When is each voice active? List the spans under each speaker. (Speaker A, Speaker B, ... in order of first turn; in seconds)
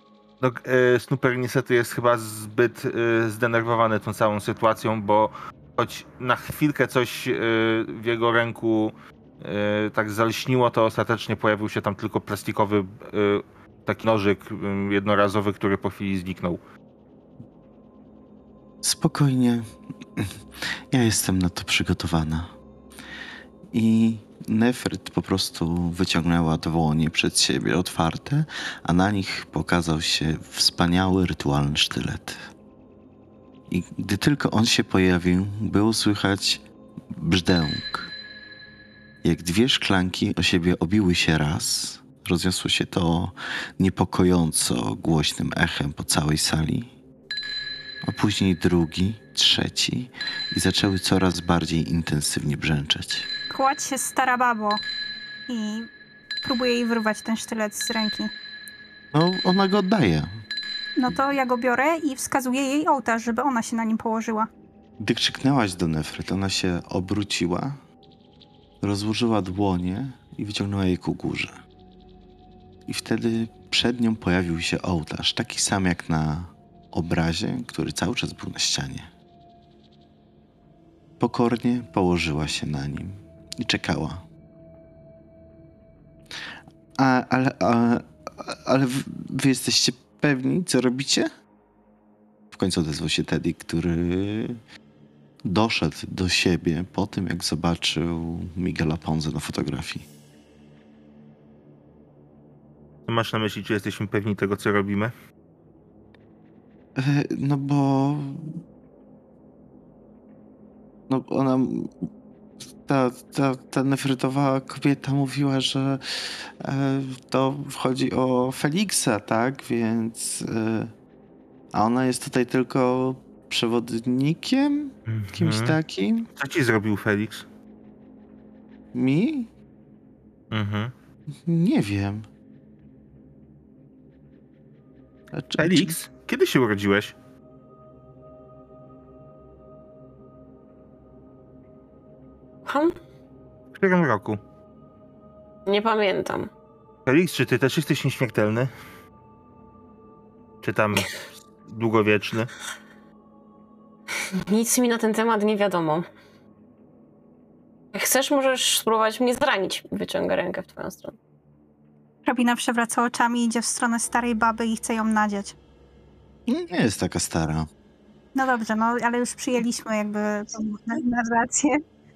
Speaker A: 0.4-16.6, 103.1-105.1, 125.1-125.8, 126.3-127.5, 130.5-130.9, 135.6-137.1, 143.7-144.4, 147.1-148.7, 150.6-152.5
Speaker B: 18.8-19.6, 20.9-22.5, 23.7-32.5, 33.7-38.1, 39.2-46.9, 48.0-53.3, 59.1-60.3, 65.0-67.8, 68.8-71.6, 72.8-79.1, 81.2-84.2, 87.0-91.3, 92.5-94.6, 95.4-100.0, 107.0-108.6, 111.1-111.9, 112.8-120.9, 121.7-126.3, 128.9-129.5, 131.4-132.2, 135.3-135.9, 166.5-167.7
Speaker C: 53.5-54.8, 55.5-55.9, 56.4-58.3, 61.0-64.5, 162.2-165.6, 168.3-171.8
Speaker D: 142.7-142.9, 145.7-146.5, 154.3-156.1, 157.9-161.2